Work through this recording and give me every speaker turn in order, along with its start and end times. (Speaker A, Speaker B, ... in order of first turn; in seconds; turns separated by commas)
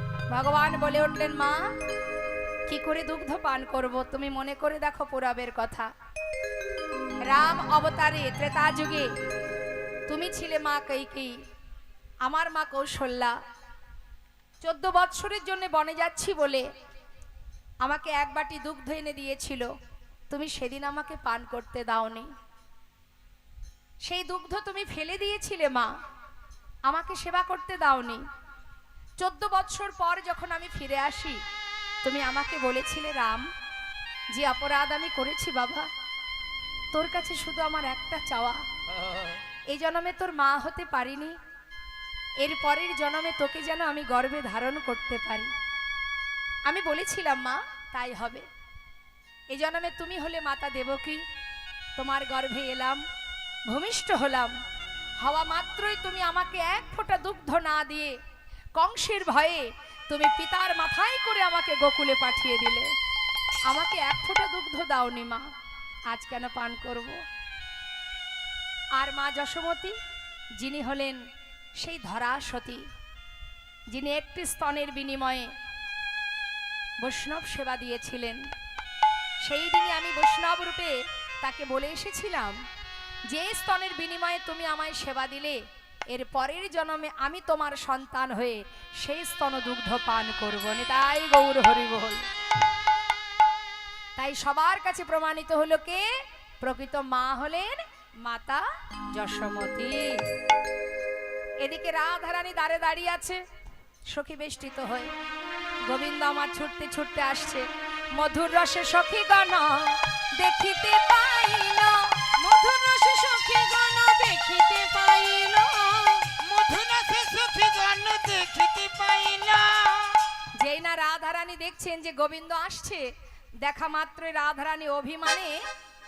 Speaker A: 0.3-1.6, Speaker A: 2.7-5.9, Speaker A: 7.3-9.1, Speaker A: 10.1-11.3, Speaker A: 12.2-13.4, Speaker A: 14.6-16.7, Speaker A: 17.8-19.7, Speaker A: 20.3-22.3, Speaker A: 24.1-25.9, Speaker A: 26.9-28.2, Speaker A: 29.2-31.4, Speaker A: 32.0-33.5, Speaker A: 34.3-35.9, Speaker A: 36.9-38.6, Speaker B: 39.0-39.4, Speaker A: 39.7-41.4, Speaker A: 42.4-45.5, Speaker A: 46.7-48.5, Speaker A: 49.5-51.2, Speaker A: 52.0-53.0, Speaker A: 53.7-54.5, Speaker A: 55.2-58.1, Speaker A: 58.8-62.9, Speaker A: 63.7-65.4, Speaker A: 66.1-67.2, Speaker A: 69.0-70.0, Speaker A: 70.6-71.2, Speaker A: 71.8-72.8, Speaker A: 73.9-75.5, Speaker A: 77.0-78.4, Speaker A: 79.4-82.6, Speaker A: 83.3-85.6, Speaker A: 86.1-92.3, Speaker A: 94.2-96.1, Speaker A: 96.6-98.6, Speaker A: 99.1-100.2, Speaker A: 101.6-103.4, Speaker A: 104.1-105.1, Speaker A: 105.9-107.7, Speaker A: 108.2-112.1, Speaker C: 112.4-116.3, Speaker B: 116.4-120.3, Speaker A: 120.6-123.0, Speaker A: 123.6-125.6